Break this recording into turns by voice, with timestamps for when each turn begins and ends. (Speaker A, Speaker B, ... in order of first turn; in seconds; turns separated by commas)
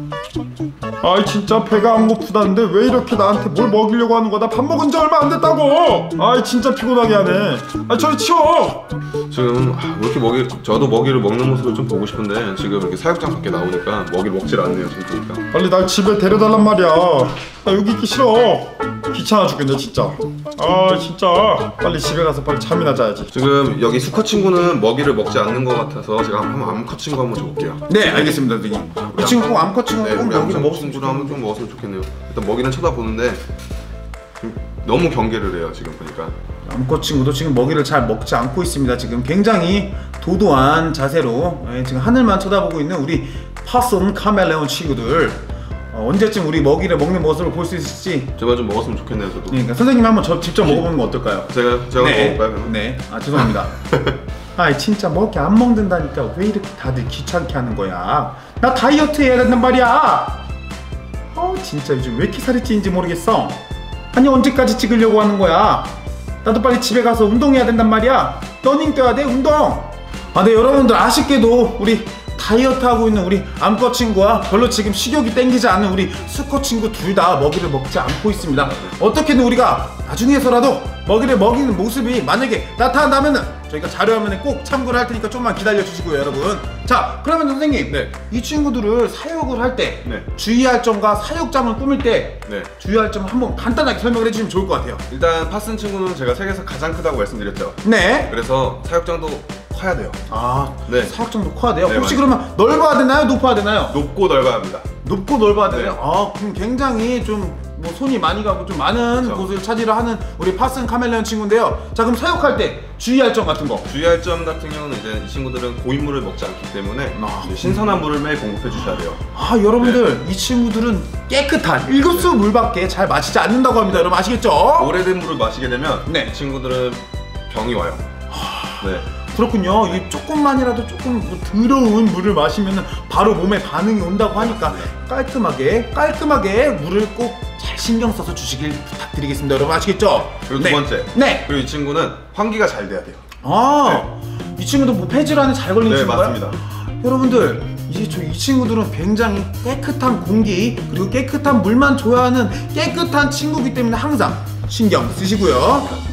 Speaker A: 1.0-8.8, Speaker B: 9.3-15.4, Speaker A: 15.5-23.3, Speaker B: 23.3-28.4, Speaker A: 27.9-31.4, Speaker B: 29.1-33.4, Speaker B: 34.4-36.3, Speaker A: 36.6-48.3, Speaker B: 48.4-49.6, Speaker A: 49.5-53.7, Speaker B: 50.6-50.9, Speaker B: 51.5-52.7, Speaker B: 53.4-54.1, Speaker A: 54.5-60.4, Speaker A: 61.3-63.6, Speaker A: 64.1-95.0, Speaker B: 78.4-78.9, Speaker B: 95.1-100.2, Speaker A: 97.8-98.3, Speaker A: 100.3-104.0, Speaker B: 100.8-101.1, Speaker B: 101.8-102.3, Speaker B: 103.9-104.8, Speaker A: 105.0-113.9, Speaker B: 105.7-106.0, Speaker B: 109.2-109.5, Speaker B: 113.8-119.2, Speaker A: 117.2-117.9, Speaker A: 119.3-124.9, Speaker B: 124.8-128.0, Speaker A: 126.1-126.3, Speaker A: 128.3-141.5, Speaker B: 128.8-129.1, Speaker B: 134.3-134.9, Speaker B: 140.5-143.2, Speaker A: 143.4-156.0, Speaker B: 145.8-146.6